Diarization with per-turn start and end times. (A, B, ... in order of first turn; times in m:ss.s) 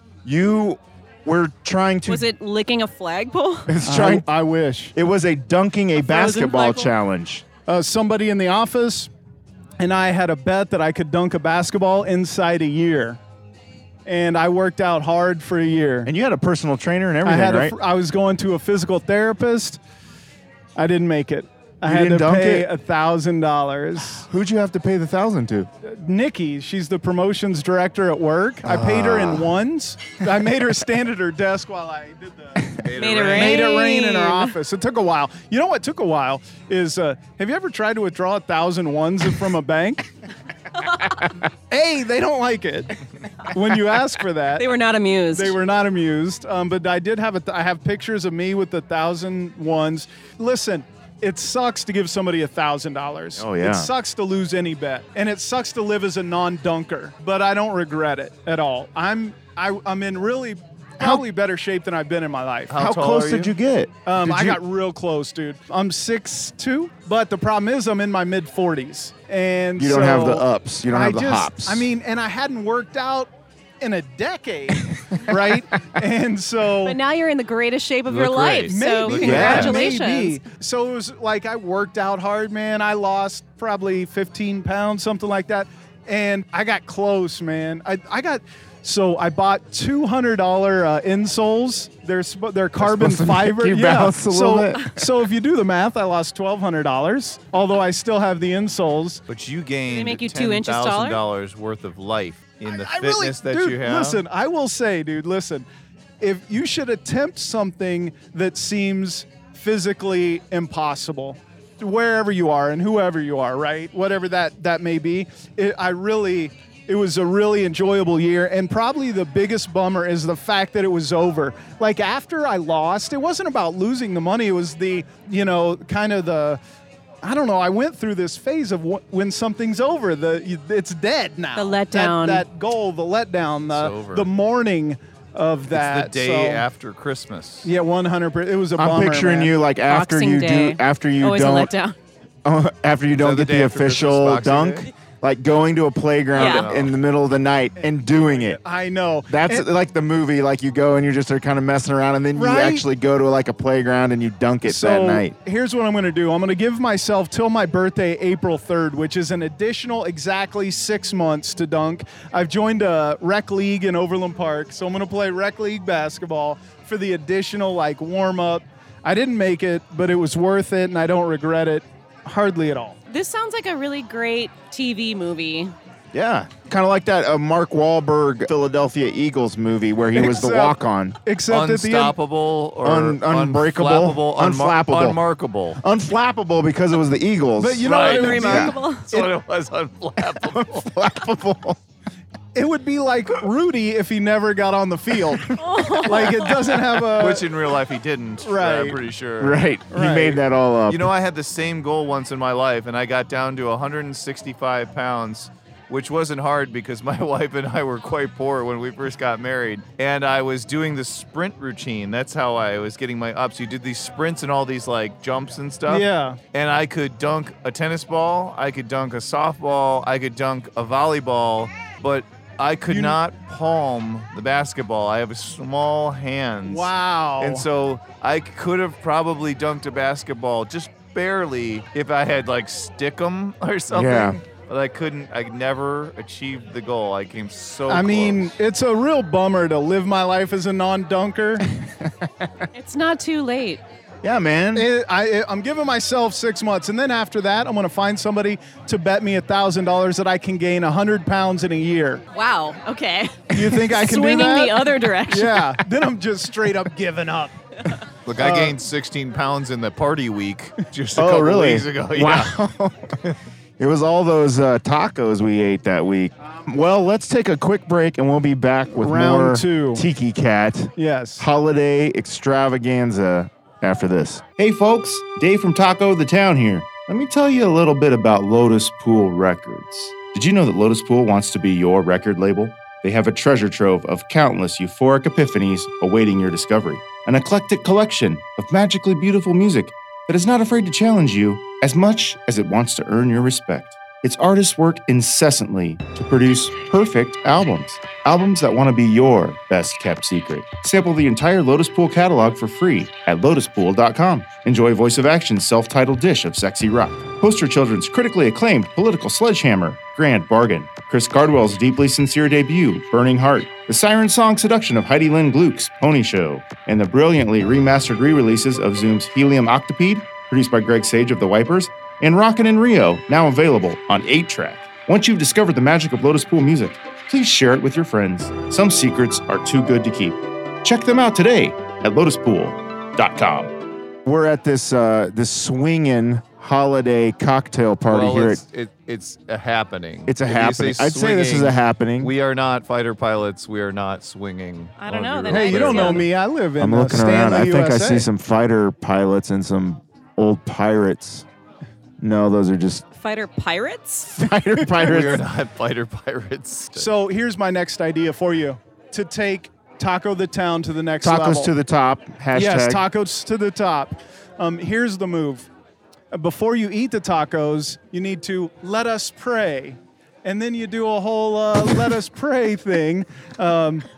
0:00.2-0:02.3 A
0:02.0-0:03.7 B
0:03.7-0:04.3 A
0:03.8-0:04.9 C
0:04.9-0:07.4 A
0:06.0-0:06.9 B
0:07.7-0:09.1 C
0:09.8-0:13.2 C
0:14.0-0:16.1 C
0:16.0-0:17.7 A
0:17.2-0:19.8 C
0:20.8-0:24.3 C
0:21.8-0:22.7 A
0:24.3-0:25.7 A
0:25.8-0:40.1 C
0:28.6-0:29.5 A
0:32.8-0:33.8 D
0:32.9-0:34.5 B
0:41.7-0:44.7 C
0:44.6-0:45.6 B
0:45.3-1:02.8 C
0:53.4-0:53.9 A
1:02.7-1:03.5 D
1:02.8-1:04.6 A
1:04.0-1:13.3 C
1:09.8-1:11.9 A
1:13.8-1:17.0 C
1:16.8-1:20.4 B
1:18.1-1:19.8 D
1:18.6-1:39.2 C
1:19.2-1:19.7 A
1:32.8-1:35.0 A
1:39.3-1:44.2 D
1:39.9-1:41.2 B
1:42.7-1:45.7 C
1:46.2-2:06.6 C
2:07.2-2:16.7 C
2:11.6-2:12.4 B
2:13.7-2:14.3 D
2:15.7-2:17.7 D
2:17.6-2:19.5 C
2:18.8-2:21.7 A
2:19.9-2:22.0 B
2:22.4-2:28.6 A
2:23.2-2:24.9 D
2:26.3-2:26.7 B
2:26.3-2:26.9 D
2:27.8-2:29.7 C
2:29.3-2:35.3 A
2:32.3-2:32.8 C
2:34.6-2:53.0 C
2:53.1-2:55.7 B
2:56.1-3:01.2 A
3:00.1-3:02.2 C
3:01.5-3:05.8 D
3:02.8-3:05.2 A
3:05.8-3:08.7 A
3:07.6-3:09.3 C
3:07.8-3:10.9 D
3:07.9-3:09.1 B
3:10.5-3:11.8 A
3:12.5-3:17.5 C
3:15.5-3:16.7 B
3:17.1-3:19.6 D
3:18.4-3:19.0 C
3:19.4-3:21.1 A
3:19.9-3:20.4 C
3:20.9-3:58.5 D
3:35.9-3:36.4 C
3:42.9-3:43.2 C
3:46.6-3:47.7 C
3:53.9-3:54.4 A
3:57.9-4:01.6 C
4:01.8-4:02.6 A
4:02.7-4:03.8 B
4:04.2-4:04.9 A
4:04.7-4:12.2 C
4:12.3-4:15.7 B
4:13.5-4:17.5 C
4:18.2-4:22.5 D
4:18.4-4:18.8 C
4:21.2-4:23.2 A
4:23.8-5:30.3 A
4:28.9-4:30.0 C
4:31.0-4:31.5 C
5:30.8-5:33.7 A
5:34.2-5:38.6 A
5:38.1-5:46.3 D
5:40.3-5:42.3 A
5:45.0-5:46.3 B
5:45.5-5:48.3 C
5:46.8-5:51.4 A
5:52.2-5:53.0 A
5:53.1-5:54.3 B
5:54.3-5:55.4 A
5:54.9-5:57.1 D
5:56.9-6:01.7 C
6:01.2-6:03.0 A
6:02.5-6:05.7 C
6:06.3-6:14.0 C